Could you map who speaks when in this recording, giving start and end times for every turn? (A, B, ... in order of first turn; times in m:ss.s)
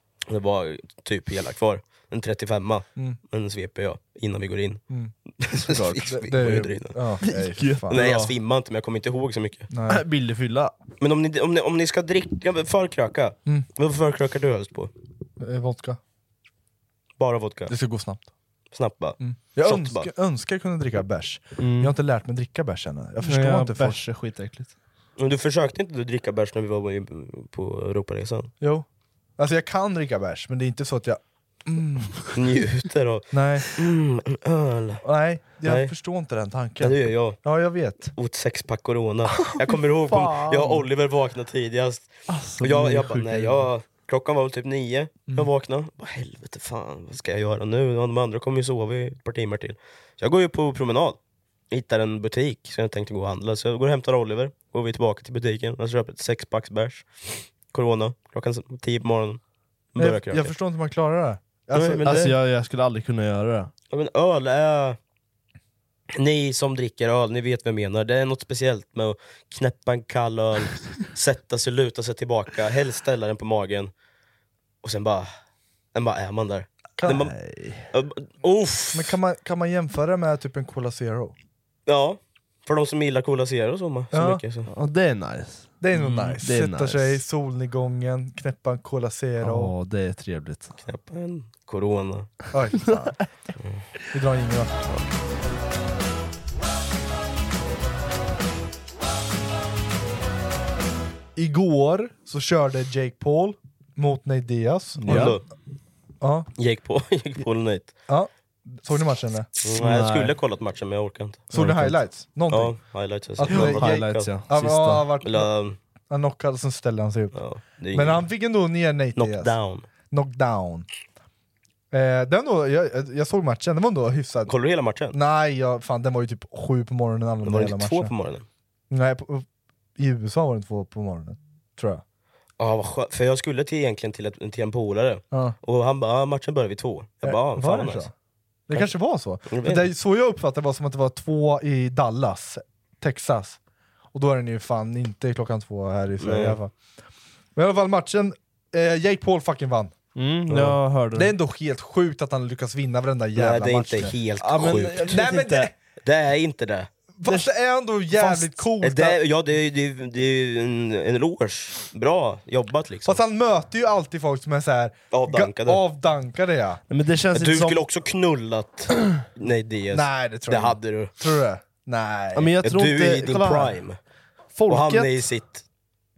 0:00.3-0:04.8 A
0:05.4-0:07.0 A
0:05.9-0:08.0 B
0:07.2-0:08.3 C
0:07.9-0:09.7 A
0:09.7-0:10.0 B
0:09.9-0:10.8 C
0:11.0-0:14.9 A
0:15.4-0:16.0 B
0:17.2-0:17.7 A
0:17.7-0:18.3 B
0:18.7-0:20.1 A
0:19.2-0:24.0 B
0:21.6-0:21.9 C
0:23.2-0:24.7 C
0:25.2-0:28.5 A
0:28.6-0:28.9 B
0:29.4-0:32.2 B
0:32.3-0:35.0 A
0:33.3-0:33.7 B
0:35.0-0:38.1 B
0:35.6-0:35.9 A
0:36.8-0:37.4 A
0:38.1-0:51.2 A
0:39.3-0:40.8 C
0:42.3-0:43.7 C
0:51.7-0:59.4 A
1:00.0-1:00.5 A
1:00.0-1:02.3 B
1:01.7-1:02.3 A
1:02.1-1:03.7 C
1:03.9-1:05.0 A
1:06.2-1:13.9 A
1:14.8-1:15.3 A
1:16.0-1:17.3 A
1:17.1-1:17.9 C
1:17.9-1:19.2 A
1:18.9-1:21.4 B
1:21.9-1:24.7 A
1:24.1-1:24.4 B
1:24.7-1:27.2 C
1:25.8-1:29.7 B
1:26.0-1:26.3 A
1:29.4-1:30.8 C
1:30.8-1:32.3 A
1:32.5-1:33.2 B
1:32.8-1:33.1 C
1:33.6-1:33.9 A
1:34.1-1:34.7 B
1:41.4-1:45.4 B
1:45.0-1:45.4 C
1:45.1-1:45.4 A
1:46.2-1:46.5 B
1:46.6-1:47.9 A
1:48.1-1:49.5 B
1:49.6-1:51.5 A
1:49.7-1:50.4 C
1:51.5-1:52.0 C
1:51.5-1:52.8 B
1:52.5-1:54.3 A
1:53.4-1:55.5 B
1:53.5-1:55.1 C
1:55.2-1:55.8 A
1:56.1-1:57.4 B
1:57.3-1:58.3 A
1:57.9-1:59.6 B
1:59.2-1:59.9 A
2:00.1-2:00.9 B
2:01.9-2:04.5 B
2:04.5-2:05.2 A
2:05.1-2:08.1 B
2:07.4-2:08.5 A
2:08.9-2:09.5 B
2:10.0-2:12.0 B
2:12.6-2:18.1 A
2:17.2-2:18.1 B
2:18.7-2:23.6 B
2:19.5-2:19.9 A
2:24.1-2:26.7 B
2:26.2-2:26.6 A
2:27.6-2:30.0 B
2:30.2-2:31.3 C
2:31.1-2:34.1 B
2:33.4-2:35.2 A
2:34.4-2:35.7 C
2:34.9-2:35.7 B
2:36.0-2:36.9 A
2:37.2-2:39.2 B
2:38.2-2:43.2 A
2:43.1-2:46.8 B
2:45.1-2:45.8 A
2:46.9-2:47.9 C
2:47.3-2:51.1 A
2:49.9-2:52.6 B
2:52.4-2:53.8 C
2:52.6-2:54.0 A
2:54.5-2:55.2 C
2:54.7-2:55.6 A